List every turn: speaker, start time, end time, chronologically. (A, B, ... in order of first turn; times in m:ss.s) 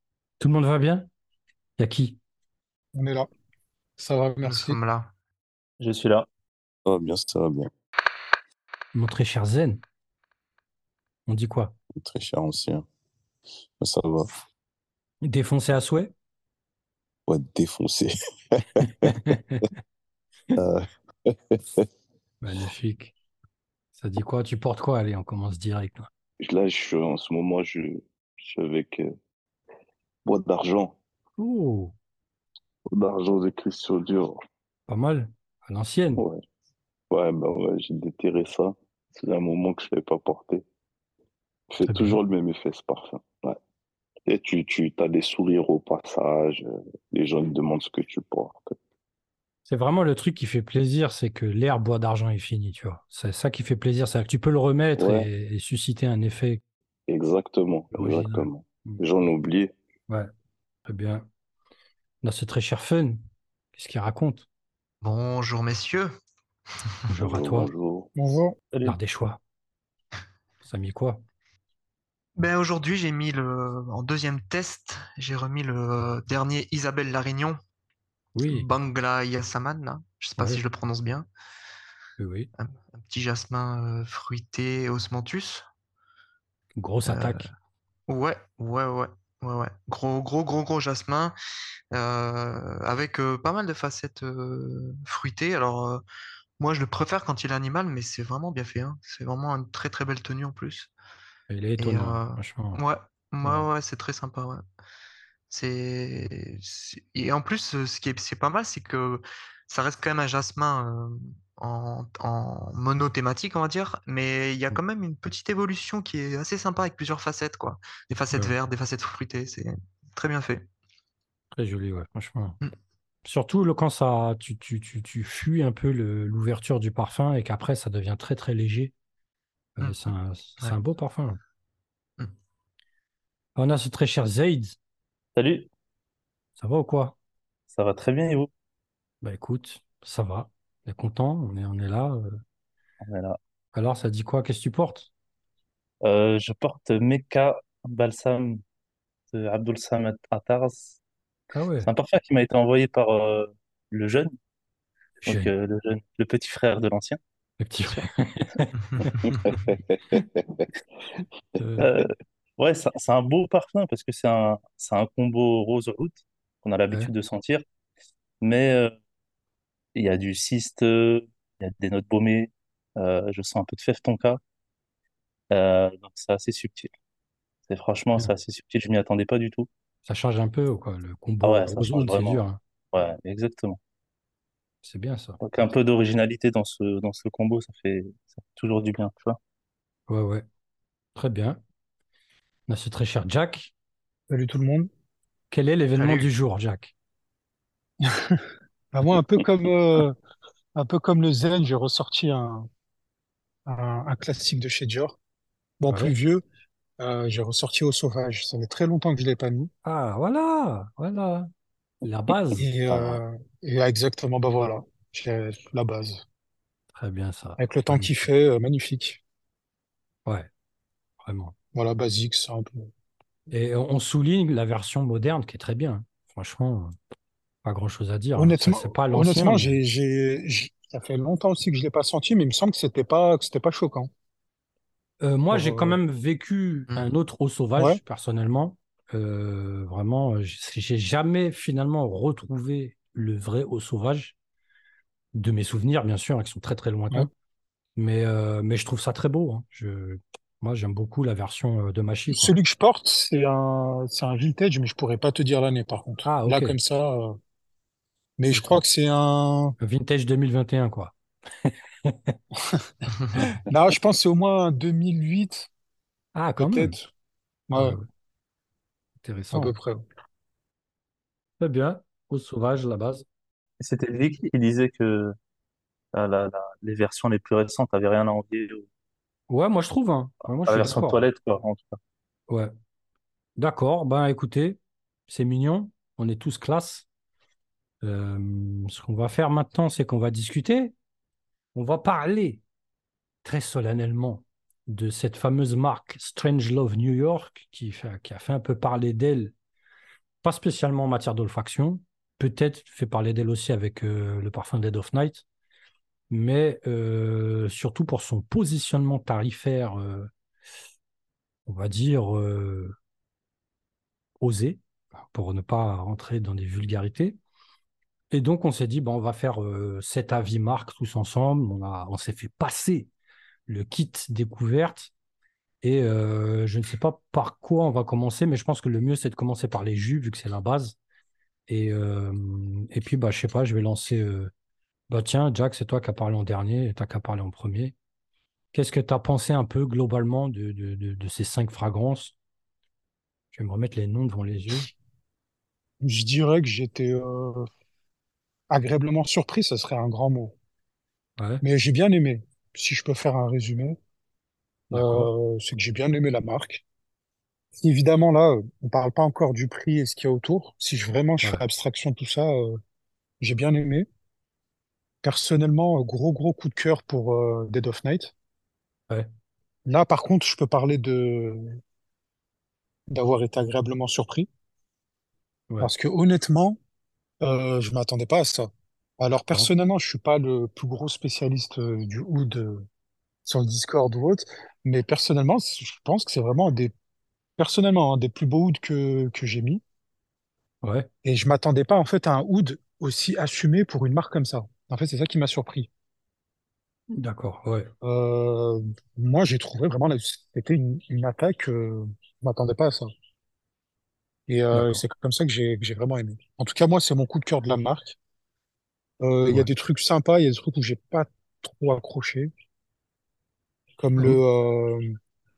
0:00.4-0:01.1 A
0:01.8-0:02.2 A
0:03.0-0:03.3 B
0:04.0-0:04.8 B
0:04.4-0:05.1 C
0:05.8-0:06.3 D
0:06.8-0:07.7 E
0:08.9-0:09.8 A
0:11.3-0:11.8 A
0:12.0-0:12.9 E
0:13.8-0:14.3 E
0:15.2-0:16.1 A
0:17.3-0:19.3 E
0:19.0-0:19.7 A
0:20.6-0:21.9 E
0:22.4-0:23.2 A
0:24.0-0:26.1 A
0:26.4-0:29.1 E
0:30.3-0:31.0 E
0:31.4-0:31.9 A
0:32.9-0:34.4 E
0:34.9-0:36.2 A
0:37.1-0:40.6 E
0:41.7-0:43.6 E
0:41.9-0:42.2 A
0:44.3-0:48.8 E
0:49.7-0:56.6 A
0:55.0-0:55.3 E
0:57.1-0:59.7 E
0:58.0-0:59.0 A
1:00.9-1:01.3 A
1:02.2-1:03.2 A
1:03.7-1:04.5 A
1:05.0-1:06.1 C
1:07.1-1:07.7 A
1:07.2-1:08.1 E
1:08.2-1:08.6 B
1:08.8-1:09.4 A
1:10.6-1:11.2 A
1:12.4-1:17.6 C
1:18.4-1:18.7 A
1:18.4-1:21.3 C
1:20.4-1:20.6 A
1:22.2-1:22.5 A
1:22.6-1:25.7 C
1:26.8-1:27.5 A
1:27.1-1:27.5 C
1:28.1-1:31.3 C
1:31.9-1:36.0 C
1:36.6-1:40.9 C
1:41.5-1:42.8 A
1:41.8-1:44.6 C
1:43.4-1:43.7 A
1:45.5-2:00.6 C
2:01.5-2:02.6 A
2:03.2-2:08.9 A
2:09.8-2:11.4 A
2:13.6-2:14.8 A
2:15.4-2:15.7 D
2:16.6-2:17.2 A
2:17.7-2:18.5 D
2:19.2-2:22.4 A
2:23.0-2:23.4 D
2:23.8-2:25.1 A
2:26.0-2:28.6 D
2:29.3-2:31.0 D
2:31.5-2:31.9 A
2:31.8-2:34.3 D
2:35.2-2:35.5 A
2:35.3-2:37.2 D
2:37.6-2:39.2 A
2:38.8-2:39.4 C
2:39.2-2:40.7 E
2:41.6-2:41.9 A
2:41.8-2:47.6 D
2:48.4-2:48.9 D
2:50.0-2:54.4 D
2:55.5-2:56.9 D
2:57.7-2:59.7 D
3:00.1-3:02.6 A
3:01.4-3:02.4 D
3:02.9-3:03.8 D
3:04.8-3:05.4 A
3:05.4-3:09.4 D
3:10.1-3:10.4 A
3:11.2-3:11.6 A
3:12.7-3:13.7 A
3:14.3-3:14.9 B
3:15.5-3:16.9 A
3:16.0-3:16.2 C
3:18.0-3:20.2 B
3:20.8-3:22.7 B
3:23.7-3:25.2 B
3:25.8-3:26.4 B
3:25.9-3:26.1 A
3:27.0-3:29.7 B
3:29.8-3:31.5 A
3:32.0-3:33.2 A
3:32.6-3:36.2 B
3:36.9-3:38.1 A
3:37.6-3:39.2 B
3:41.2-3:41.6 A
3:41.7-3:42.9 B
3:43.5-3:46.9 A
3:47.6-3:49.8 A
3:48.4-3:54.1 B
3:55.2-4:04.4 A
3:55.5-3:56.0 B
4:05.4-4:07.3 A
4:08.0-4:12.5 A
4:12.3-4:17.4 B
4:16.2-4:16.8 A
4:18.4-4:19.8 B
4:18.5-4:18.8 A
4:19.8-4:22.4 A
4:22.5-4:22.9 B
4:23.6-4:25.7 B
4:26.4-4:27.0 A
4:26.6-4:27.1 B
4:27.7-4:28.0 B
4:27.8-4:28.1 A
4:29.2-4:29.7 A
4:29.5-4:30.0 B
4:31.6-4:33.3 A
4:33.8-4:35.4 D
4:36.1-4:38.9 D
4:39.5-4:41.2 A
4:40.7-4:42.0 D
4:43.6-4:47.1 A
4:48.0-4:50.9 A
4:51.8-4:52.6 A
4:53.4-4:59.5 A
5:00.4-5:05.4 A
5:06.3-5:10.3 A
5:11.7-5:13.0 A
5:14.4-5:17.4 A
5:18.3-5:23.1 A
5:23.7-5:25.1 A
5:25.8-5:31.0 A
5:31.7-5:34.5 A
5:35.1-5:38.0 A
5:38.7-5:42.4 A
5:43.5-5:44.9 A
5:46.0-5:47.7 B
5:48.7-5:50.6 B
5:51.4-5:51.6 A
5:51.6-5:54.0 B
5:54.9-5:55.3 A
5:54.9-5:56.8 B
5:57.8-6:02.8 B
6:03.4-6:04.1 B
6:05.2-6:08.3 B
6:09.9-6:11.8 B
6:13.1-6:14.5 B
6:15.8-6:16.8 B
6:17.4-6:22.9 B
6:23.4-6:26.9 B
6:27.6-6:29.8 B
6:30.8-6:31.1 A
6:31.2-6:35.9 B
6:37.1-6:37.9 A
6:38.0-6:43.1 B
6:44.5-6:48.2 B
6:44.7-6:45.0 A
6:49.2-6:52.5 B
6:54.0-6:55.2 B
6:54.2-6:54.4 A